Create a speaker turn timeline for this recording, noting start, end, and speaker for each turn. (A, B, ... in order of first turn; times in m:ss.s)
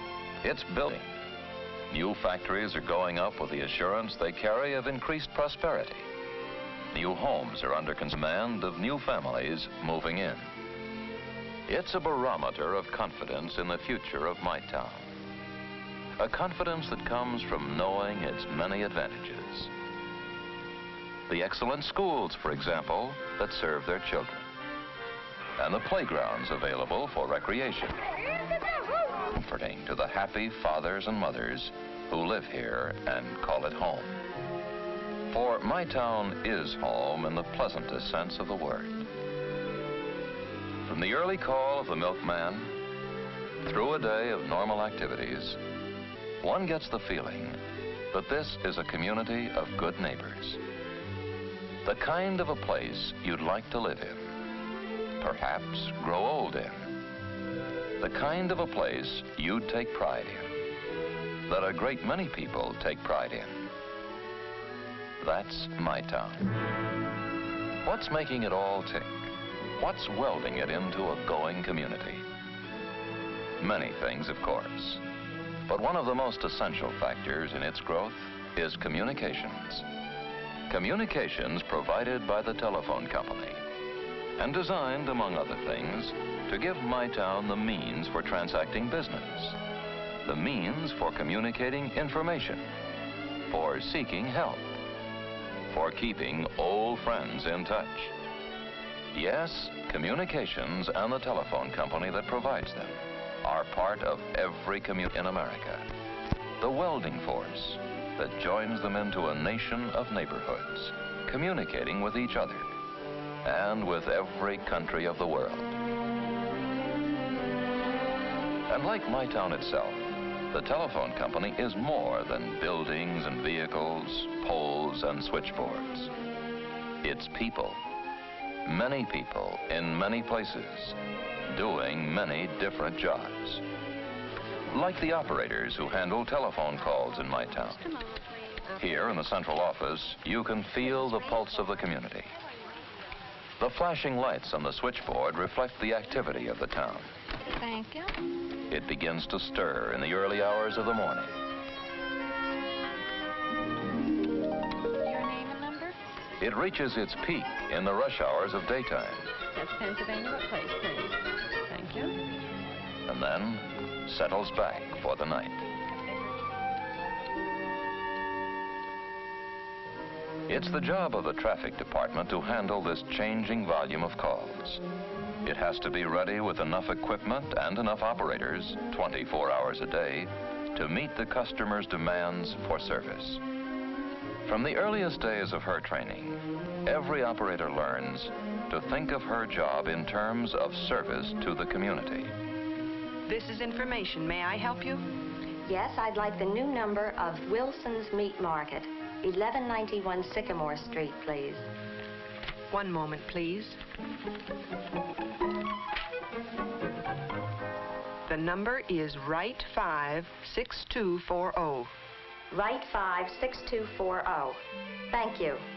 0:00.4-0:01.1 A
0:01.9-0:06.0 A
0:06.9-0:10.5 A
0:11.7-0:15.1 A
0:16.2-0:19.7 A
0:21.3-0:24.5 A
0:25.6-0:28.0 A
0:29.3-0:34.2 A
0:35.3-0:39.1 A
0:40.8-0:42.7 A
0:43.6-0:45.6 A
0:46.4-0:47.6 A
0:48.1-0:50.6 A
0:51.8-0:54.3 A
0:55.2-0:56.9 A
0:58.0-1:00.5 A
1:01.5-1:03.7 A
1:05.2-1:06.5 A
1:07.8-1:12.2 A
1:13.6-1:15.0 A
1:15.7-1:19.8 A
1:20.7-1:23.6 A
1:24.4-1:29.6 A
1:30.2-1:32.7 A
1:33.5-1:34.8 A
1:35.7-1:38.1 A
1:39.1-1:45.9 A
1:46.6-1:52.7 A
1:53.4-1:55.8 A
1:58.7-2:06.1 A
2:07.0-2:07.8 A
2:08.6-2:13.6 A
2:14.7-2:17.8 A
2:18.8-2:22.3 A
2:23.6-2:27.1 A
2:27.5-2:28.1 B
2:28.7-2:31.3 A
2:35.0-2:35.9 B
2:36.4-2:39.3 A
2:39.5-2:42.2 B
2:43.1-2:45.6 A
2:50.5-2:54.8 A
2:55.4-3:03.4 A
3:04.4-3:12.3 A
3:13.3-3:15.0 C
3:15.6-3:21.6 D
3:22.7-3:23.8 C
3:28.3-3:31.9 C
3:32.5-3:34.6 D
3:35.1-3:35.6 D